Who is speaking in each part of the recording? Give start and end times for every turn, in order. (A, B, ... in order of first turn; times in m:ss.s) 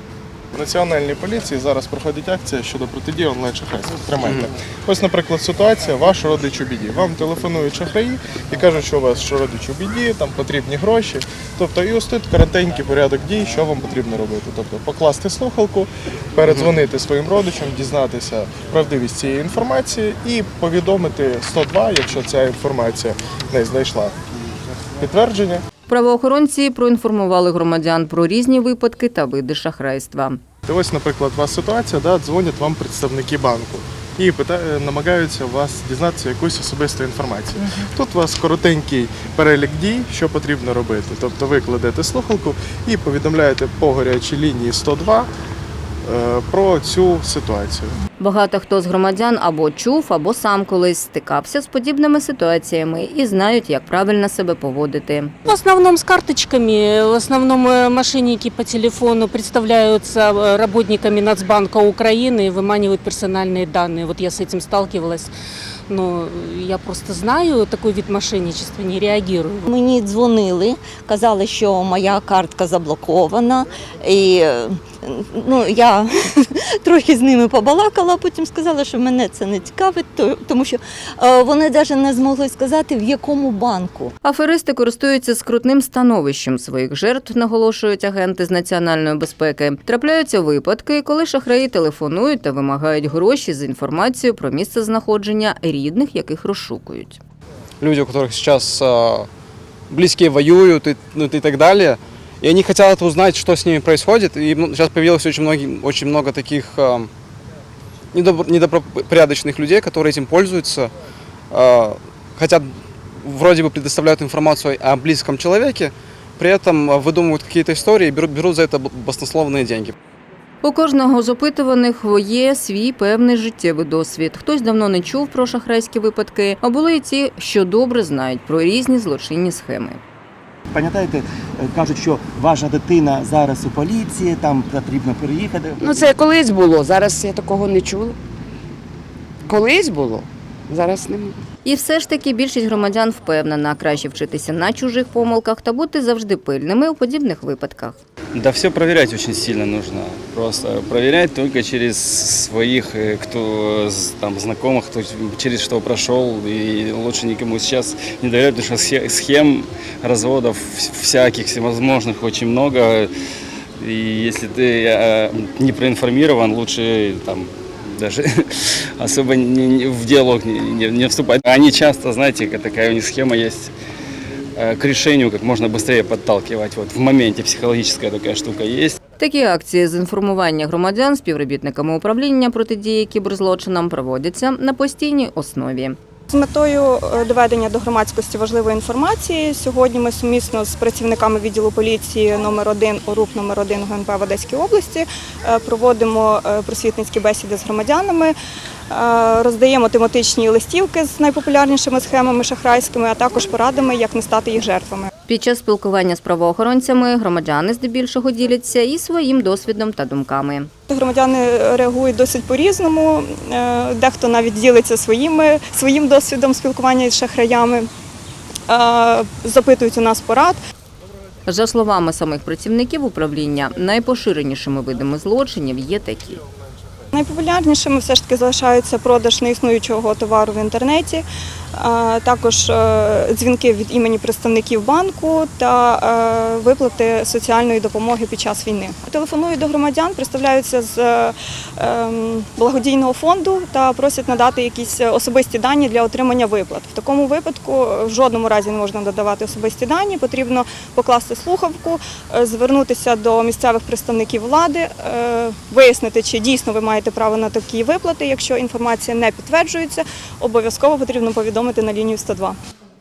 0:00.5-0:24.1 A
0:25.0-0:25.6 A
0:25.9-0:30.4 B
0:30.6-0:45.3 A
0:46.0-0:47.9 A
0:48.2-0:55.3 B
0:55.4-1:05.3 C
1:05.9-1:09.6 C
1:09.7-1:24.1 D
1:24.2-1:37.2 B
1:37.8-1:39.3 E
1:39.9-1:47.1 E
1:48.1-1:50.9 E
1:51.5-1:59.9 E
2:00.6-2:10.0 B
2:10.7-2:16.0 F
2:15.8-2:18.2 G
2:19.4-2:21.4 G
2:21.6-2:28.0 B
2:28.3-2:43.1 H
2:43.8-2:53.7 H
2:54.6-2:59.0 H
2:59.2-3:06.0 B
3:06.3-3:18.4 I
3:18.9-3:25.1 I
3:25.3-3:30.7 B
3:30.9-3:37.9 I
3:38.7-3:40.6 I
3:41.5-3:46.4 B
3:47.1-4:22.6 I